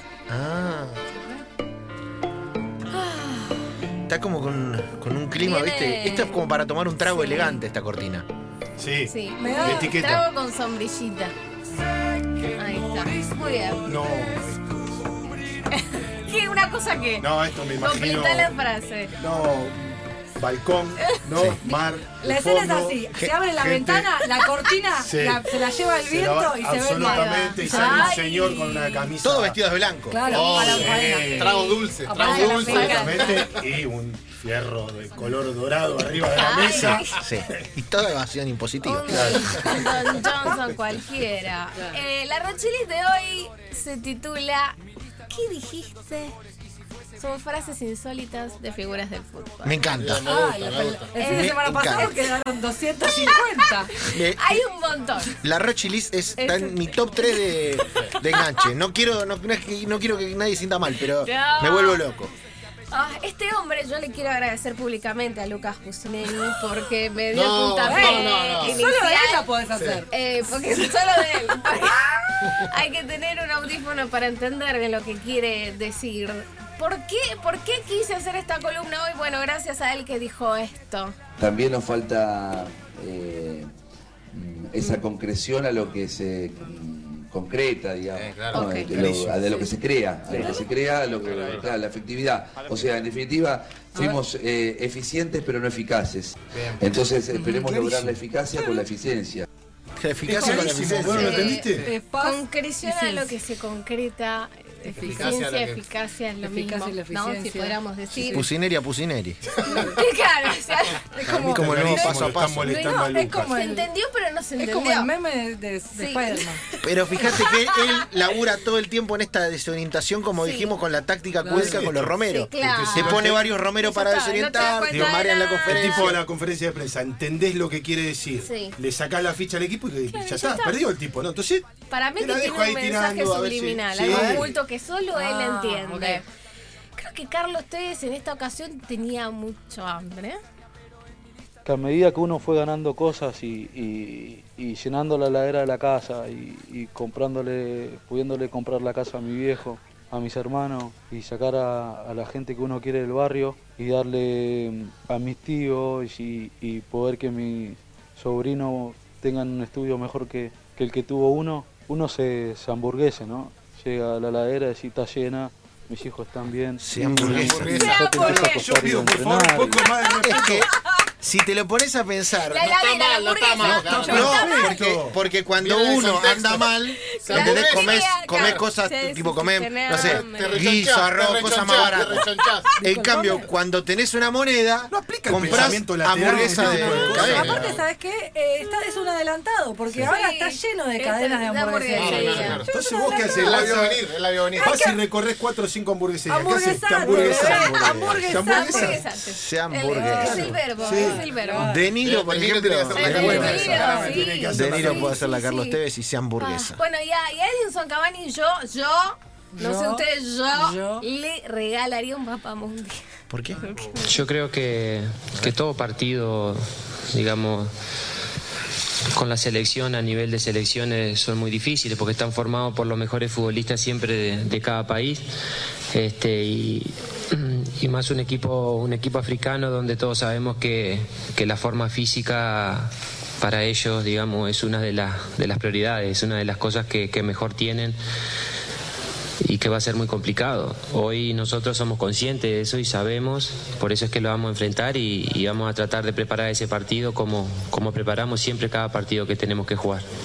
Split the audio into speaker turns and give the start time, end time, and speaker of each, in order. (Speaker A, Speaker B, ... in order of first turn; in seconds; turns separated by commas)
Speaker A: 0.3-1.0, Speaker B: 1.1-1.4, Speaker B: 2.9-3.7, Speaker A: 4.1-8.2, Speaker B: 5.4-6.5, Speaker B: 7.0-7.6, Speaker C: 8.8-10.2, Speaker B: 9.0-11.3, Speaker D: 9.3-10.0, Speaker B: 12.5-14.0, Speaker C: 13.8-15.3, Speaker B: 15.7-19.1, Speaker C: 17.2-18.5, Speaker C: 19.2-24.1, Speaker B: 21.0-21.2, Speaker D: 22.2-28.2, Speaker B: 24.2-24.5, Speaker C: 25.0-25.4, Speaker C: 26.0-29.6, Speaker B: 26.9-29.1, Speaker A: 29.2-30.7, Speaker D: 30.1-33.4, Speaker E: 30.2-33.5, Speaker B: 30.3-30.6, Speaker C: 30.7-31.5, Speaker B: 32.1-33.3, Speaker C: 32.9-37.0, Speaker B: 36.3-37.2, Speaker A: 36.6-39.2, Speaker B: 38.8-44.8, Speaker C: 39.1-39.8, Speaker D: 40.2-40.5, Speaker B: 45.3-46.3, Speaker B: 47.2-49.9, Speaker A: 49.6-50.4, Speaker E: 49.9-51.1, Speaker D: 50.2-53.9, Speaker B: 51.1-51.6, Speaker A: 51.3-52.1, Speaker B: 53.1-55.3, Speaker A: 54.0-54.6, Speaker A: 55.4-62.3, Speaker B: 56.4-56.9, Speaker B: 58.4-58.7, Speaker B: 61.2-62.0, Speaker B: 62.9-69.5, Speaker E: 67.3-68.8, Speaker D: 67.8-70.0, Speaker E: 69.7-70.0, Speaker B: 70.1-81.1, Speaker F: 81.4-83.7, Speaker F: 84.3-99.4, Speaker E: 88.2-88.7, Speaker B: 88.5-88.9, Speaker C: 88.9-89.7, Speaker D: 93.9-94.2, Speaker E: 96.5-97.1, Speaker D: 97.3-97.7, Speaker C: 97.6-98.2, Speaker A: 100.0-101.5, Speaker C: 100.2-101.9, Speaker B: 100.3-108.5, Speaker D: 101.8-103.3, Speaker D: 104.9-105.3, Speaker E: 105.0-105.8, Speaker D: 106.4-108.4, Speaker A: 108.2-109.4, Speaker B: 109.8-111.2, Speaker D: 111.1-111.8, Speaker C: 111.3-113.5, Speaker A: 111.4-112.8, Speaker B: 111.9-115.1, Speaker D: 112.8-113.9, Speaker D: 114.6-116.6, Speaker B: 115.9-116.5, Speaker A: 116.8-126.2, Speaker B: 117.5-117.9, Speaker B: 120.3-120.7, Speaker D: 121.4-121.8, Speaker C: 121.5-123.4, Speaker B: 121.6-125.9, Speaker C: 124.7-134.6, Speaker B: 128.3-128.8, Speaker B: 130.1-130.9, Speaker B: 131.9-136.2, Speaker D: 135.1-136.2, Speaker B: 137.0-140.4, Speaker G: 141.6-169.9, Speaker A: 166.8-167.8, Speaker C: 167.0-170.7, Speaker B: 167.7-168.8, Speaker B: 170.0-170.6, Speaker A: 170.2-170.7, Speaker A: 171.2-172.7, Speaker B: 172.3-174.8, Speaker E: 172.6-174.5, Speaker C: 173.6-175.2, Speaker A: 174.1-182.2, Speaker E: 175.5-178.6, Speaker B: 176.6-180.7, Speaker E: 179.9-182.7, Speaker B: 182.2-183.4, Speaker D: 182.8-183.5, Speaker A: 182.8-187.6, Speaker C: 184.9-187.8, Speaker D: 186.5-193.7, Speaker E: 187.0-187.7, Speaker B: 190.0-192.7, Speaker E: 191.9-192.7, Speaker C: 192.4-194.1, Speaker E: 193.3-194.8, Speaker D: 194.5-195.0, Speaker C: 194.6-199.1, Speaker D: 196.2-199.0, Speaker B: 197.1-201.8, Speaker A: 197.5-198.2, Speaker A: 199.3-200.5, Speaker D: 199.9-201.9, Speaker C: 200.2-201.3, Speaker A: 201.5-203.8, Speaker E: 201.9-204.2, Speaker B: 202.9-205.8, Speaker D: 203.0-204.5, Speaker C: 203.1-205.2, Speaker A: 204.5-206.8, Speaker B: 206.4-213.0, Speaker D: 209.6-211.1, Speaker A: 213.3-213.6, Speaker B: 213.6-214.2, Speaker H: 214.0-217.7, Speaker H: 219.1-225.2, Speaker H: 225.9-238.0, Speaker H: 239.4-250.1